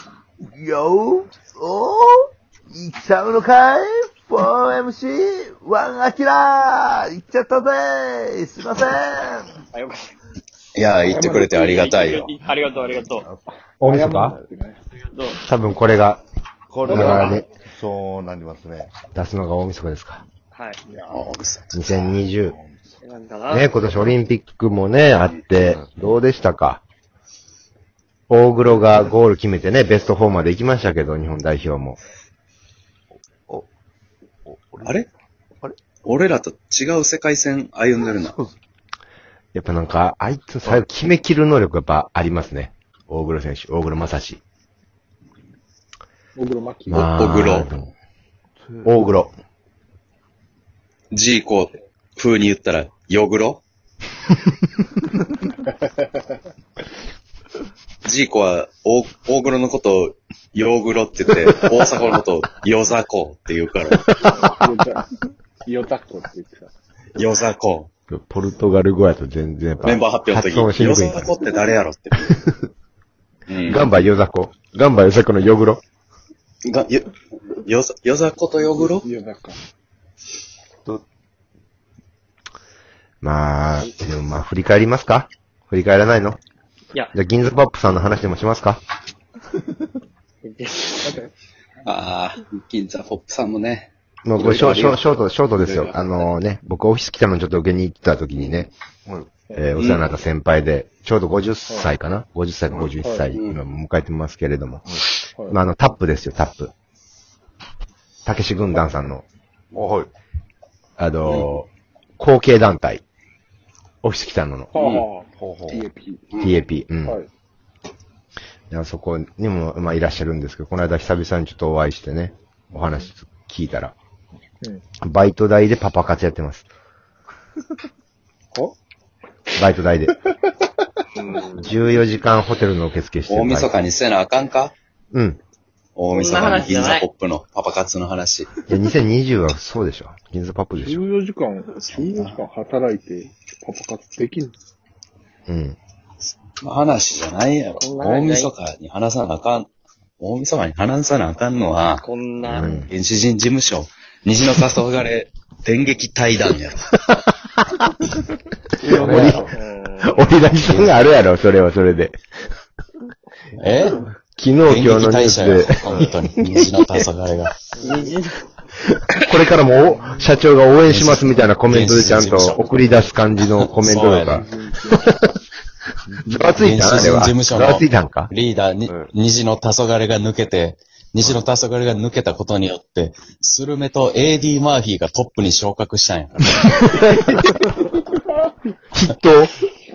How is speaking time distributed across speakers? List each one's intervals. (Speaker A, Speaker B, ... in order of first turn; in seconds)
Speaker A: 0.4-9.6, 12.7-13.4, 14.1-14.4, 16.7-18.9, 22.4-23.0, 25.5-26.0, 33.1-33.7, 34.5-35.0, 38.0-38.6, 48.6-49.0, 99.0-99.3, 109.7-110.1, 115.4-115.8, 176.1-176.5, 178.8-179.1
Speaker B: 9.7-10.1, 11.6-13.3, 15.1-15.4, 20.5-20.8, 23.0-24.1, 90.4-91.2, 131.2-131.7, 136.1-137.1, 147.8-148.5, 152.0-152.8, 159.5-160.3, 167.8-168.4
Speaker C: 10.7-12.3, 20.9-21.7, 34.8-35.1, 36.0-38.4, 47.0-47.7, 51.1-53.6, 58.0-64.1, 67.2-67.9, 69.8-72.3, 73.5-73.9, 76.6-79.0, 91.8-96.3, 99.8-100.1, 103.3-103.6, 111.2-111.5, 114.7-115.0, 116.3-116.6, 133.3-134.7, 135.9-138.6, 141.8-142.4, 146.6-152.1, 152.9-156.9, 158.9-159.5, 160.6-161.0, 163.6-164.1, 164.6-167.6, 170.8-172.8, 173.4-174.4, 176.6-186.6
Speaker D: 11.0-11.8, 13.5-14.8, 16.8-17.4, 46.4-47.1, 55.6-56.4, 64.2-65.1, 65.6-66.7, 78.7-79.6, 91.0-91.3, 103.0-103.3, 114.7-116.2, 140.8-144.5, 158.8-159.6, 167.7-168.1, 174.2-175.1, 187.4-188.5
Speaker E: 13.8-14.3, 15.4-16.2, 16.8-17.4, 19.1-20.2, 21.7-22.5, 23.5-26.8, 28.3-32.0, 39.5-44.4, 46.9-47.9, 48.8-49.3, 68.1-71.4, 72.2-72.6, 73.6-75.8, 83.2-86.4, 87.1-88.8, 94.2-98.7, 99.5-106.7, 108.2-109.2, 111.0-113.0, 114.0-114.7, 116.4-117.2, 118.7-123.9, 125.0-126.6, 129.5-130.2, 131.5-133.8, 135.1-135.4, 138.7-141.0, 145.5-145.8, 152.4-152.9, 157.1-158.2, 158.8-159.5, 160.0-162.1, 164.4-166.2, 169.2-175.3, 176.2-178.3, 186.6-187.3, 188.9-189.6